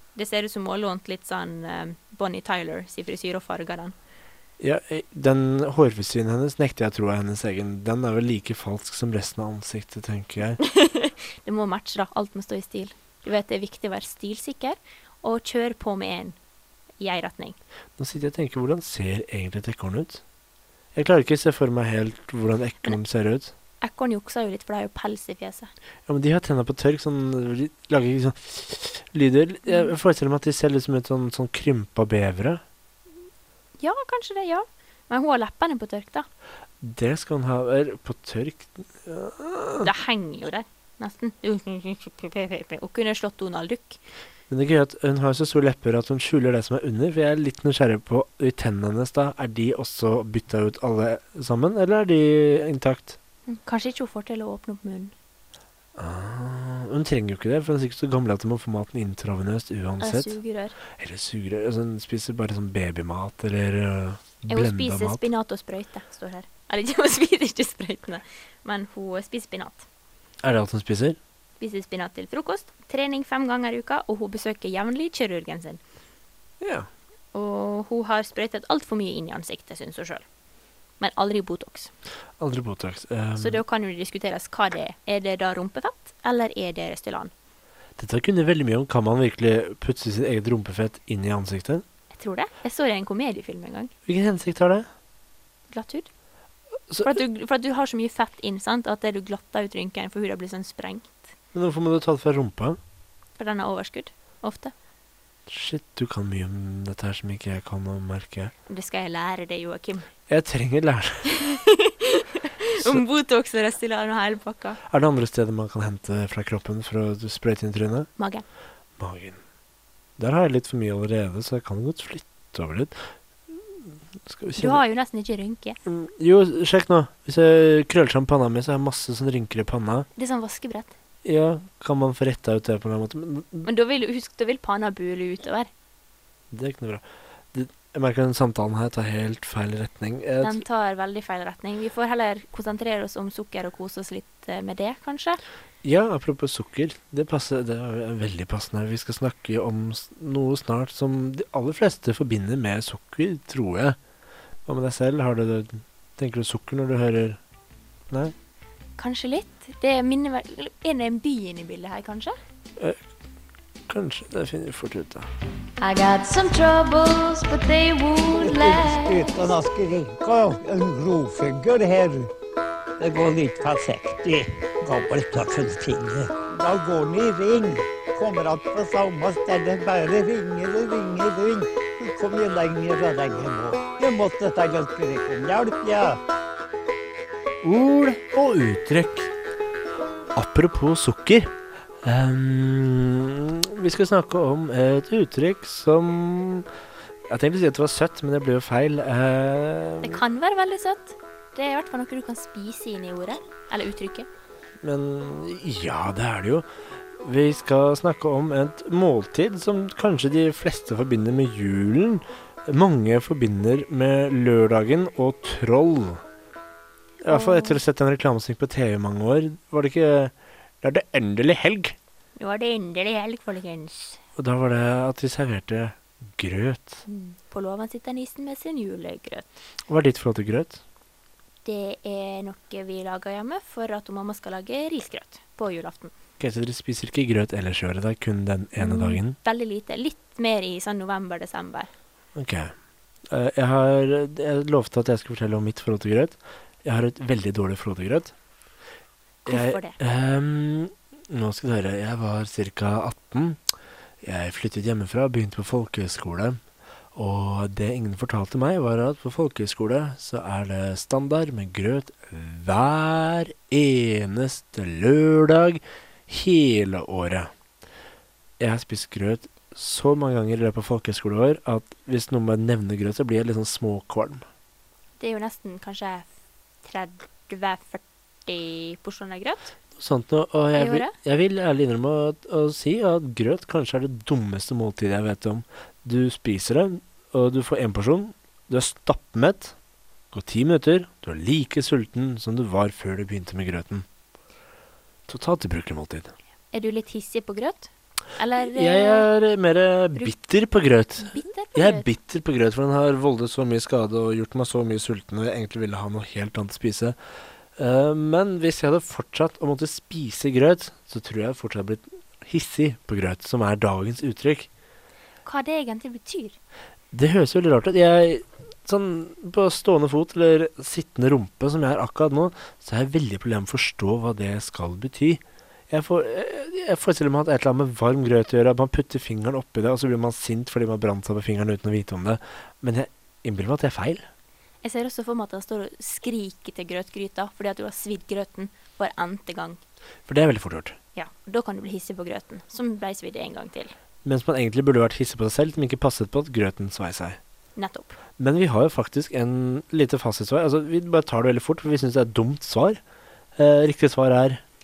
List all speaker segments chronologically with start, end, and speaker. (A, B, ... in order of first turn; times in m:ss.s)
0:00.1-0:03.9 A
0:04.6-0:10.6 B
0:10.6-0:16.4 A
0:17.0-0:17.6 A
0:18.0-0:20.2 B
0:20.9-0:23.5 B
0:23.8-0:25.7 A
0:26.1-0:32.6 B
0:29.7-0:29.9 A
0:33.8-0:36.2 A
0:36.8-0:39.9 B
0:39.8-0:44.0 A
0:44.5-0:53.2 B
0:53.5-0:55.1 A
0:56.0-1:00.4 B
1:00.0-1:00.8 A
1:01.0-1:05.2 B
1:04.5-1:09.8 A
1:10.4-1:11.2 B
1:11.6-1:15.8 A
1:16.6-1:16.9 B
1:17.3-1:20.2 A
1:21.0-1:21.9 A
1:22.4-1:23.6 B
1:23.4-1:27.3 A
1:28.0-1:31.8 B
1:32.1-1:33.9 A
1:34.0-1:34.8 B
1:35.7-1:36.1 A
1:36.9-1:37.2 B
1:37.0-1:41.3 A
1:41.5-1:42.8 B
1:43.4-1:44.7 A
1:45.5-1:48.5 B
1:48.7-1:50.1 A
1:50.3-1:51.3 B
1:51.2-1:54.8 A
1:52.7-1:53.0 B
1:54.9-1:58.1 B
1:58.2-1:58.4 A
1:59.0-1:59.4 B
2:00.2-2:02.9 B
2:03.5-2:04.8 B
2:04.6-2:05.8 A
2:05.8-2:10.1 B
2:10.1-2:10.9 A
2:11.2-2:13.7 B
2:13.6-2:15.7 A
2:16.5-2:20.6 B
2:20.4-2:25.4 A
2:25.8-2:34.0 B
2:34.6-2:37.4 B
2:39.0-2:42.4 A
2:43.9-2:45.3 B
2:45.8-2:49.3 C
2:48.4-2:52.3 D
2:53.0-3:06.2 D
3:07.6-3:09.3 B
3:10.3-3:11.5 B
3:12.0-3:16.7 B
3:17.3-3:20.2 B
3:20.0-3:24.3 A
3:24.8-3:26.6 B
3:27.2-3:36.2 B
3:37.2-3:42.0 B
3:37.2-3:37.8 A
3:42.4-3:44.2 A
3:44.4-3:47.0 B
3:47.1-3:49.6 A
3:49.9-3:50.8 B
3:51.6-3:56.1 A
3:56.4-3:59.4 B
3:58.8-4:01.9 A
4:02.3-4:02.7 B
4:03.3-4:08.3 B
4:09.4-4:10.0 A
4:09.5-4:13.6 B
4:14.2-4:16.6 B
4:17.1-4:27.5 B
4:28.6-4:34.4 B
4:35.2-4:36.3 A
4:36.8-4:39.7 A
4:40.0-4:49.7 B
4:40.8-4:41.1 A
4:50.3-4:54.0 B
4:55.3-4:56.3 B
4:56.7-4:59.3 A
4:58.7-5:07.2 B
5:01.2-5:02.1 A
5:07.8-5:14.7 B
5:15.4-5:16.6 A
5:17.1-5:34.2 B
5:34.8-5:39.8 A
5:40.3-5:41.0 B
5:41.1-5:43.9 A
5:44.2-5:47.4 B
5:47.8-5:48.2 A
5:48.4-5:53.0 B
5:53.6-5:54.6 B